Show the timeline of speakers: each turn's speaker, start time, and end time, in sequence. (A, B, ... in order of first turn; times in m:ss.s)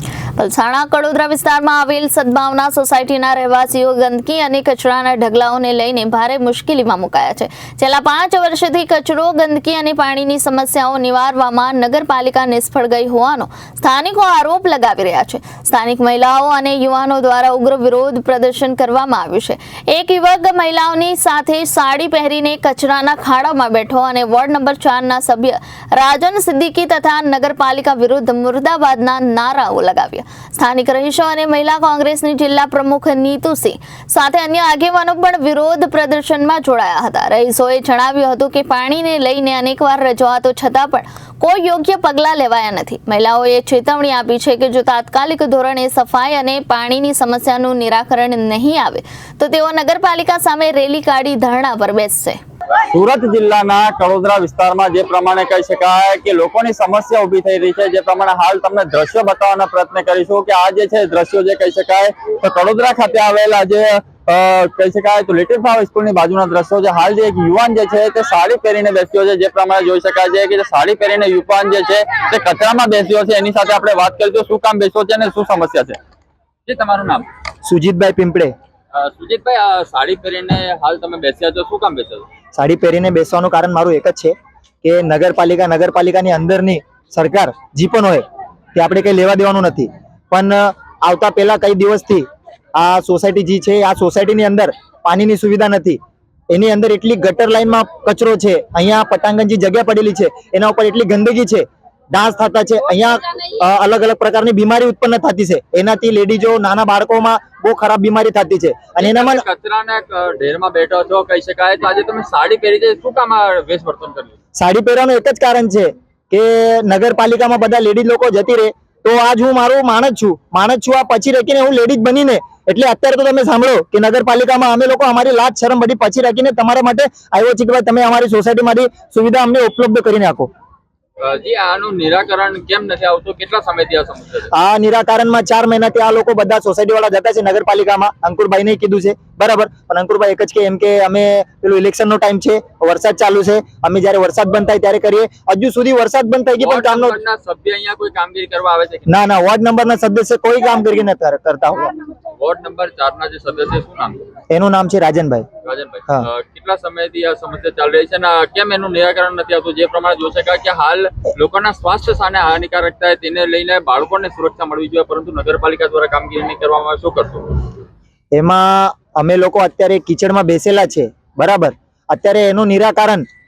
0:00.4-0:52.4 A
0:52.9-1:16.0 B
1:16.6-1:17.2 B
1:17.6-1:18.5 C
1:18.9-1:22.2 B
1:22.5-1:36.0 C
1:36.5-1:49.4 C
1:49.0-1:54.3 B
1:54.6-2:10.5 C
2:11.2-2:14.5 B
2:14.5-2:27.2 C
2:26.6-2:29.2 B
2:29.1-2:31.9 C
2:32.4-2:34.2 B
2:34.5-2:35.5 C
2:35.6-2:47.6 B
2:48.3-2:53.2 C